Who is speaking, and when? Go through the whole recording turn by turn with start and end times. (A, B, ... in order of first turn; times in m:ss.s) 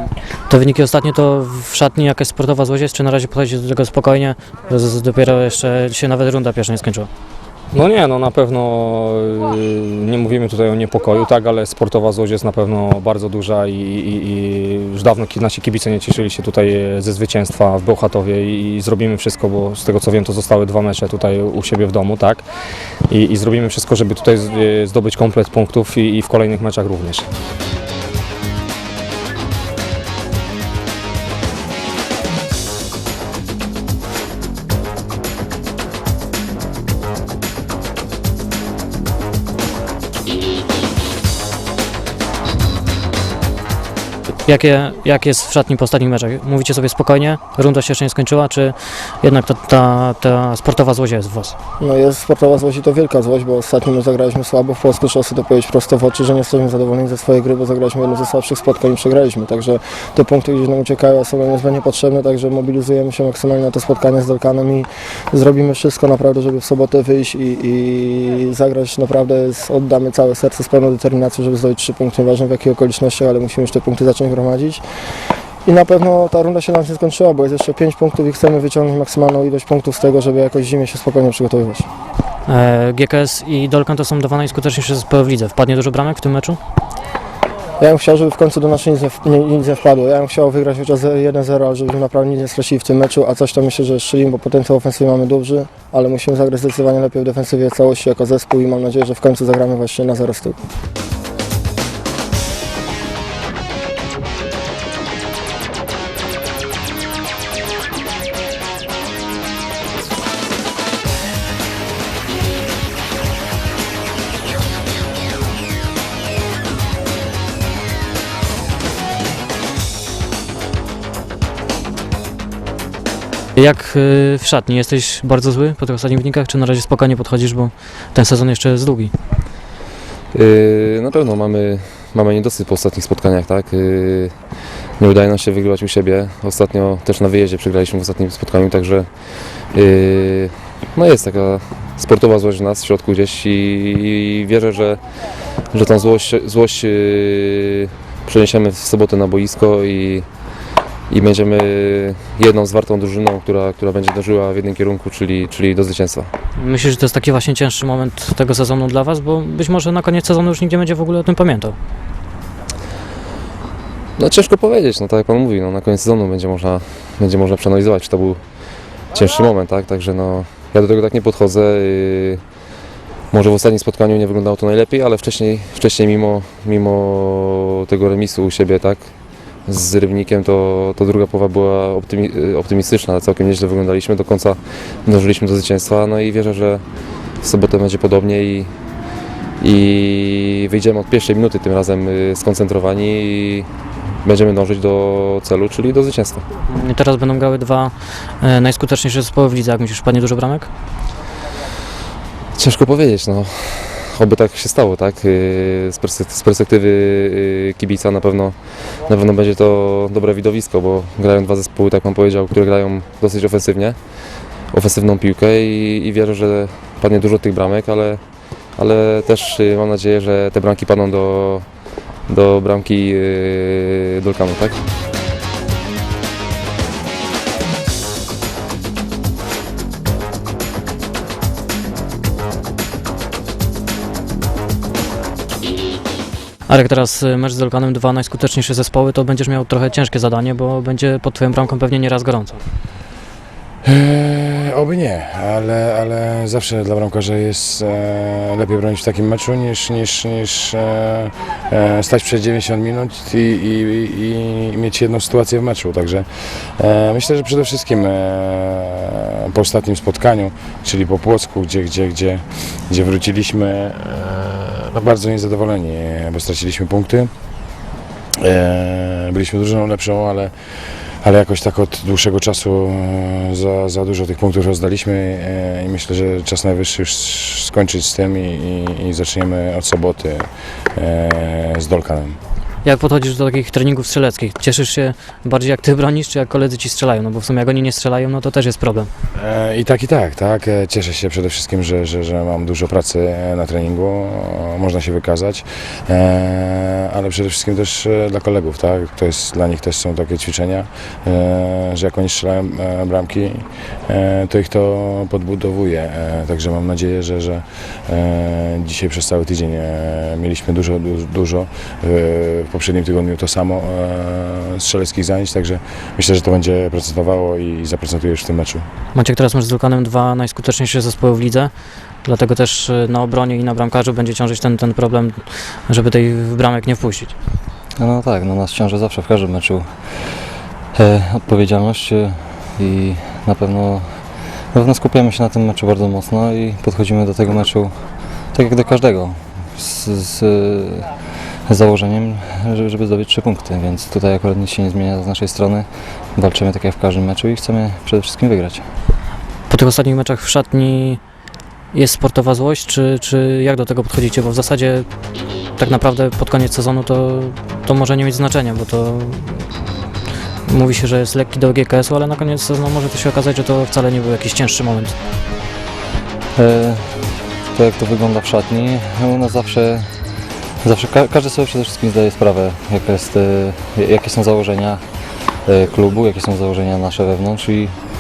0:00.5-0:07.1 A
0:07.7-0:22.5 B
0:23.1-0:27.3 B
0:44.5-0:51.6 A
0:51.8-1:14.8 C
1:15.6-1:21.9 C
1:22.5-1:26.6 A
1:27.8-1:40.6 C
2:03.6-2:09.1 A
2:10.3-2:14.4 D
2:15.0-2:19.1 D
2:19.7-2:25.0 D
2:25.7-2:30.2 D
2:31.1-2:36.3 D
2:36.6-2:41.8 A
2:44.2-2:48.4 D
2:49.1-2:52.4 D
2:53.3-2:59.1 D
2:59.7-3:06.8 D
3:07.4-3:08.7 D
3:09.6-3:13.7 D
3:14.2-3:16.4 D
3:16.7-3:20.7 A
3:22.6-3:34.0 D
3:34.7-3:38.2 D
3:38.8-3:41.7 D
3:42.3-3:44.8 D
3:56.7-4:02.6 A
4:03.8-4:27.3 E
4:28.4-4:30.5 E
4:31.2-4:42.4 E
4:42.8-4:49.1 A
4:49.4-5:18.9 E
5:19.1-5:21.7 A
5:22.2-5:27.3 A
5:28.0-5:30.3 F
5:30.9-5:48.8 F
5:49.7-5:51.2 A
5:51.9-5:55.1 A
5:55.8-5:59.6 A
6:00.7-6:05.2 A
6:06.6-6:07.2 F
6:07.7-6:10.1 F
6:10.8-6:15.0 F
6:15.6-6:18.0 F